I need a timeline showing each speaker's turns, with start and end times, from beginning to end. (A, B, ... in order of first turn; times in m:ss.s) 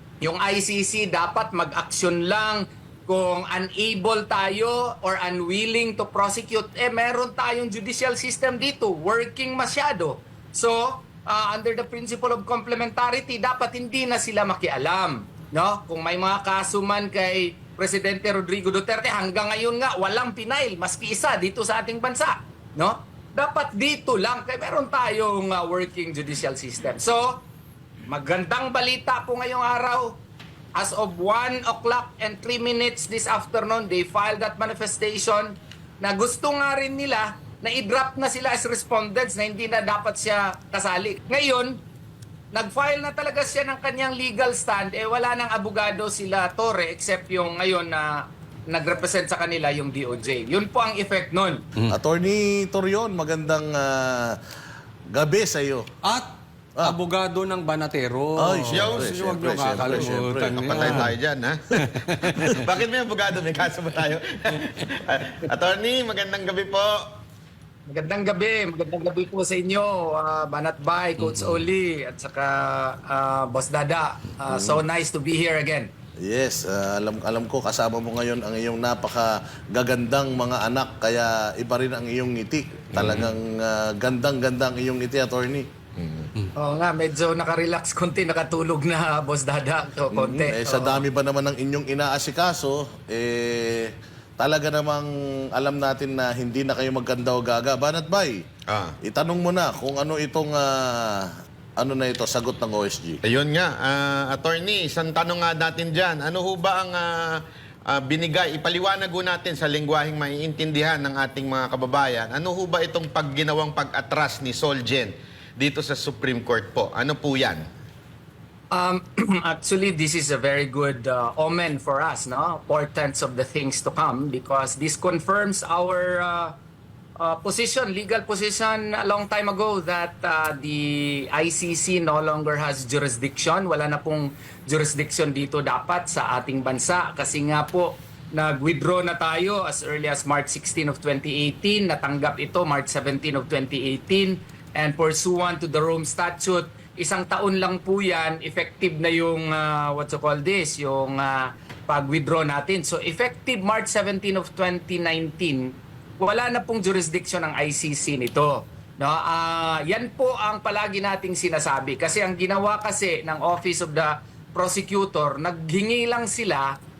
0:00.2-0:27.4 A
0:28.1-0:30.2 A
0:30.8-0:41.8 A
0:42.5-0:51.6 A
0:51.9-0:54.4 B
0:55.1-0:55.9 B
0:56.0-1:01.2 C
0:58.4-1:01.1 B
0:58.7-0:59.1 D
1:00.6-1:01.6 D
1:01.8-1:02.6 C
1:02.6-1:07.0 D
1:07.9-1:15.9 A
1:11.2-1:11.7 C
1:14.5-1:14.8 B
1:16.2-1:26.2 B
1:23.0-1:23.3 C
1:26.6-1:31.0 A
1:30.1-1:38.4 B
1:38.7-1:39.0 D
1:39.0-1:43.2 B
1:43.2-1:57.6 D
1:58.7-2:06.6 A
2:07.2-2:46.8 A